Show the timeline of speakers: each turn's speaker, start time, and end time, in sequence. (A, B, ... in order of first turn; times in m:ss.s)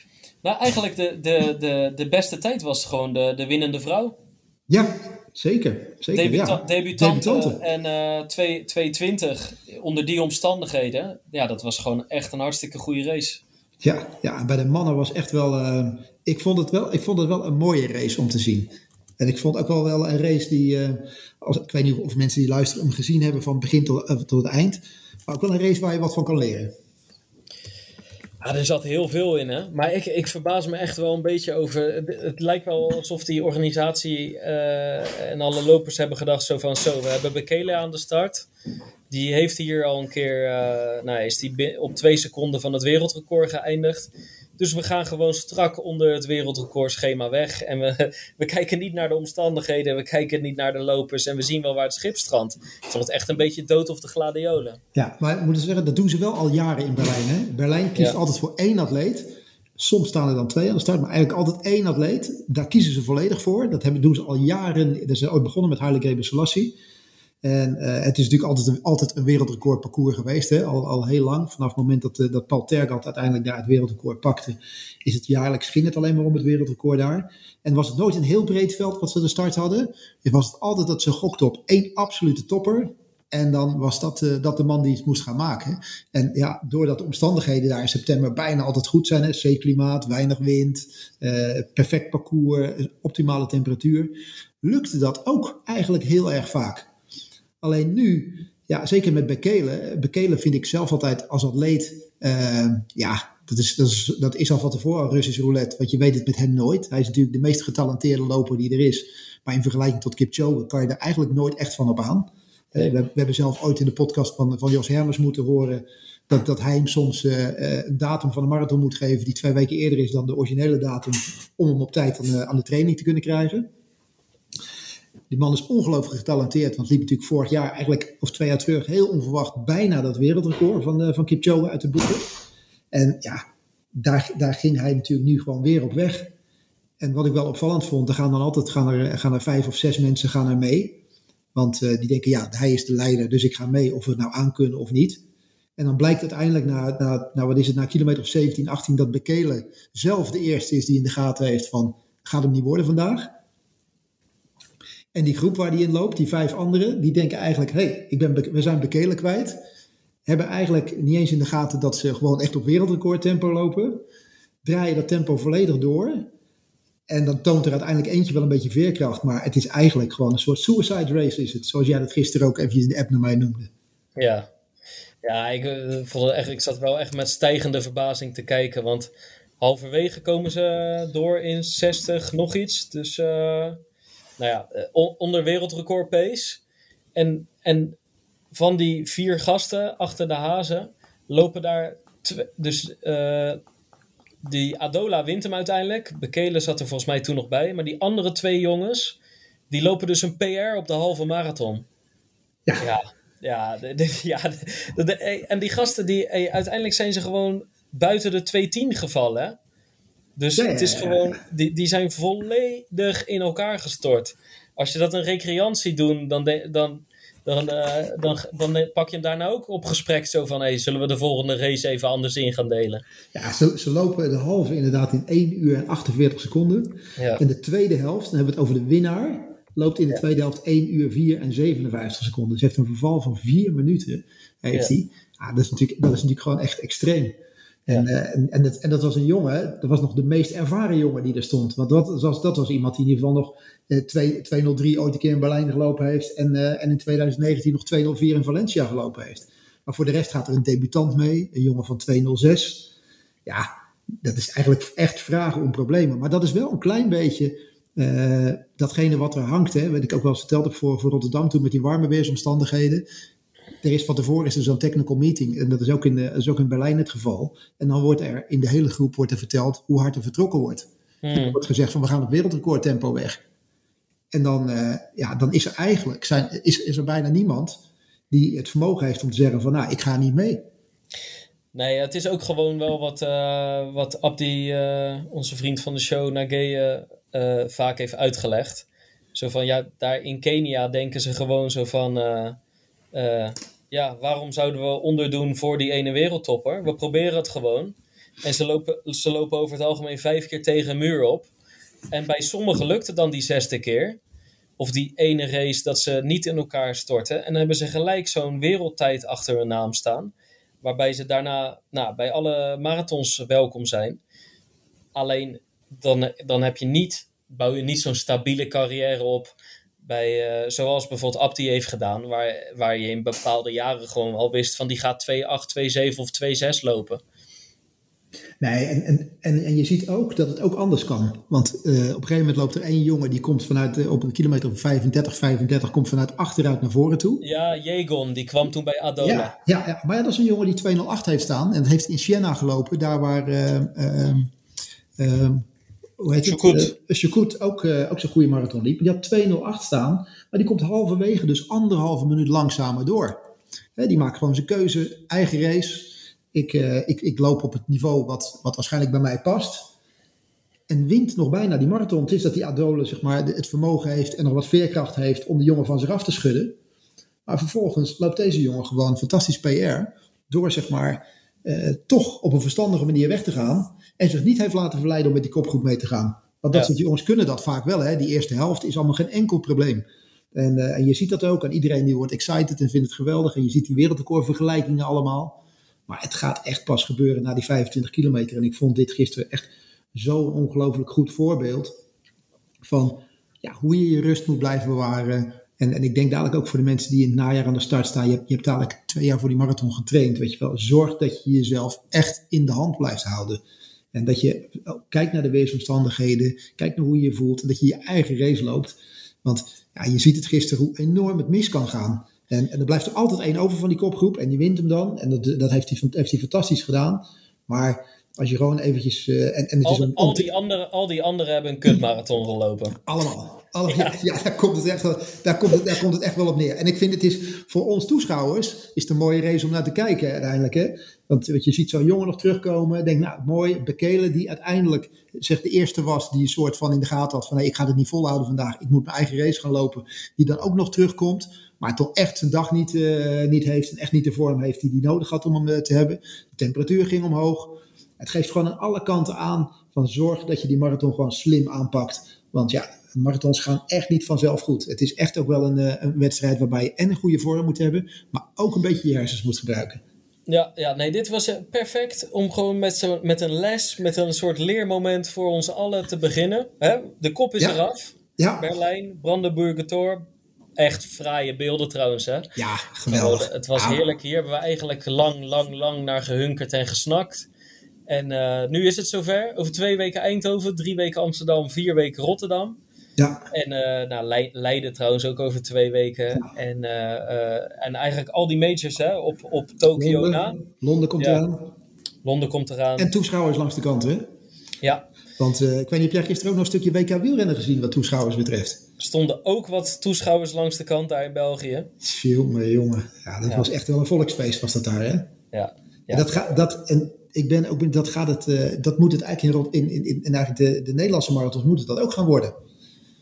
0:00.4-0:04.1 A
0:04.7-0:07.6 B
0:06.1-0:13.4 A
0:13.8-0:26.7 B
0:28.4-0:38.5 A
0:39.1-0:54.8 A
0:54.9-1:06.7 B
1:07.4-1:36.9 B
1:37.6-2:03.7 B
2:05.3-2:12.2 B
2:12.9-2:16.3 B
2:17.0-2:21.0 B
2:21.5-2:25.2 B
2:25.8-2:33.3 B
2:35.1-2:39.6 B
2:40.2-2:44.0 B
2:44.6-2:46.3 B
2:47.1-2:53.7 B
2:54.2-2:54.5 A
2:55.2-3:03.8 A
3:04.4-3:06.6 A
3:07.1-3:08.0 A
3:08.5-3:13.6 A
3:14.4-3:19.2 A
3:19.7-3:21.8 A
3:22.8-3:29.6 A
3:30.4-3:43.0 A
3:30.6-3:31.4 B
3:43.3-4:12.9 B
3:47.2-3:47.4 A
4:14.2-4:23.0 B
4:23.8-4:33.4 B
4:31.2-4:31.6 A
4:34.3-4:37.8 B
4:38.3-4:40.6 B
4:41.7-4:52.6 A
4:53.1-5:01.5 A
5:02.1-5:04.2 A
5:04.8-5:14.2 A
5:15.1-5:27.2 A
5:28.6-5:37.4 B
5:37.4-5:39.5 A
5:39.2-5:44.5 B
5:45.2-5:45.6 B
5:46.2-5:53.4 B
5:46.4-5:46.9 A
5:54.0-5:59.9 B
6:00.9-6:06.8 B
6:07.4-6:31.9 B
6:32.8-6:43.6 B
6:44.1-7:00.5 B
6:59.8-7:03.0 A
7:03.0-7:40.0 B
7:03.9-7:04.2 A
7:40.5-7:50.2 A
7:48.4-7:48.6 B
7:50.8-7:52.5 A
7:52.6-7:54.0 B
7:53.1-7:57.5 A
7:58.1-8:02.8 A
8:03.2-8:03.4 B
8:03.5-8:10.6 A
8:10.0-8:11.7 B
8:12.2-8:13.1 A
8:13.0-8:14.2 B
8:15.4-8:18.8 B
8:19.0-8:21.9 A
8:22.0-8:25.3 B
8:25.5-8:26.4 A
8:26.1-8:32.6 B